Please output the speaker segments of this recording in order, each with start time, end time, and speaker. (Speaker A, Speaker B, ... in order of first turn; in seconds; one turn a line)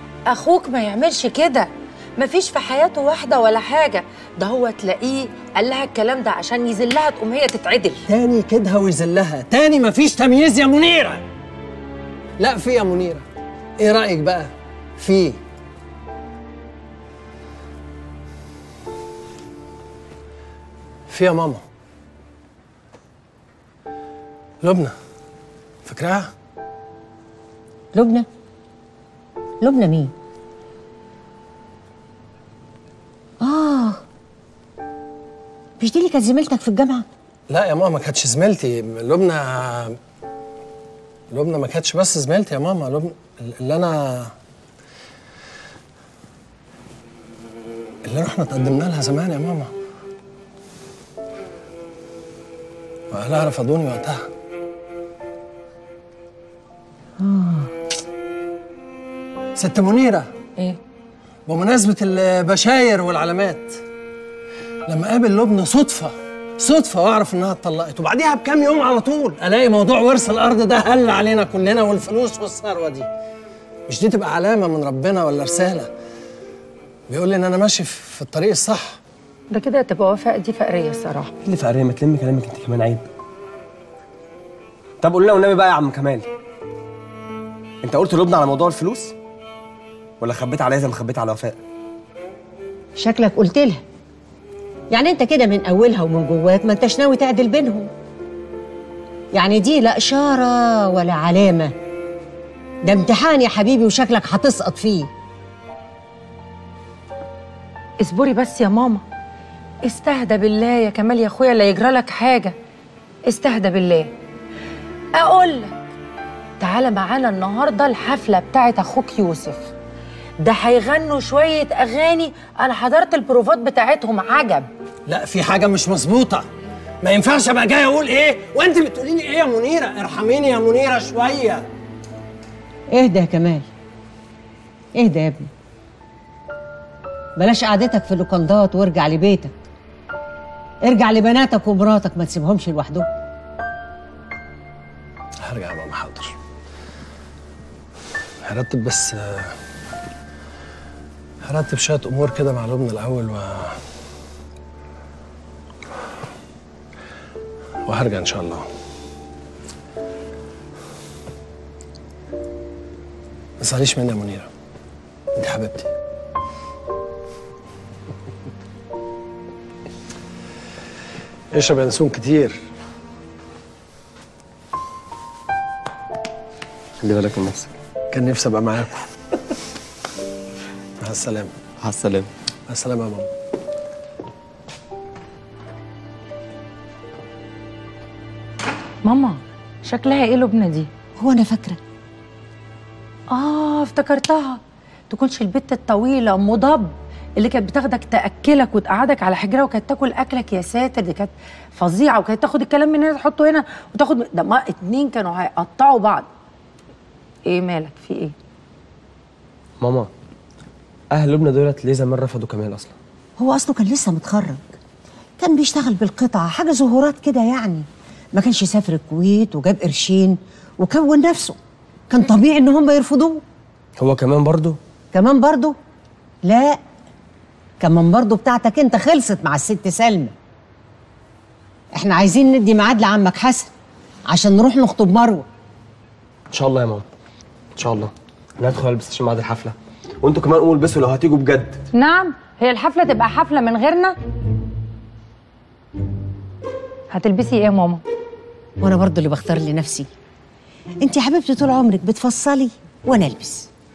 Speaker A: 0.3-8.0
Speaker B: 8.1-11.2
Speaker B: 12.4-13.2
Speaker B: 13.8-15.4
Speaker B: 21.1-21.6
Speaker B: 24.6-24.9
Speaker B: 25.8-26.3
Speaker C: 27.9-28.2
Speaker C: 29.6-30.1
Speaker C: 33.4-34.0
Speaker C: 35.8-37.0
Speaker B: 37.5-40.0
Speaker B: 41.3-44.3
Speaker B: 48.0-49.7
Speaker B: 53.1-54.3
Speaker C: 57.2-57.7
Speaker B: 59.5-60.3
Speaker B: 61.5-63.8
Speaker B: 64.9-73.1
Speaker B: 73.9-75.9
Speaker B: 77.1-79.0
Speaker A: 79.5-81.3
Speaker D: 81.4-83.1
Speaker D: 85.0-86.3
Speaker D: 87.8-89.1
Speaker D: 90.2-91.6
Speaker C: 93.0-93.8
Speaker C: 94.9-97.9
Speaker C: 99.3-101.7
Speaker C: 102.8-105.1
Speaker A: 108.0-109.0
Speaker A: 109.8-112.5
Speaker A: 113.3-114.1
Speaker A: 115.2-115.8
Speaker A: 116.6-119.7
Speaker A: 120.4-124.7
Speaker B: 125.1-126.5
Speaker B: 127.0-131.6
Speaker C: 132.9-133.7
Speaker C: 134.9-135.5
Speaker C: 137.4-139.5
Speaker C: 140.8-143.1
Speaker B: 145.4-146.4
Speaker B: 148.4-149.5
Speaker B: 151.4-153.8
Speaker B: 157.8-158.7
Speaker B: 163.6-164.5
Speaker B: 165.3-165.9
Speaker B: 171.5-172.6
Speaker D: 177.0-177.7
Speaker B: 178.1-179.0
Speaker B: 181.0-181.5
Speaker D: 181.8-182.3
Speaker B: 182.7-183.3
Speaker A: 189.0-190.9
Speaker C: 191.2-191.8
Speaker A: 193.3-206.3
Speaker A: 207.5-208.3
Speaker D: 209.8-210.1
Speaker D: 211.1-212.9
Speaker C: 213.4-214.8
Speaker C: 215.4-221.6
Speaker C: 222.1-223.4
Speaker D: 224.0-224.8
Speaker C: 225.1-225.8
Speaker C: 226.4-226.8
Speaker C: 227.8-230.3
Speaker C: 231.9-233.7
Speaker C: 234.3-235.4
Speaker D: 236.5-237.1
Speaker D: 237.8-241.8
Speaker A: 241.9-244.2
Speaker A: 247.1-248.0
Speaker C: 248.8-250.1
Speaker C: 251.0-253.7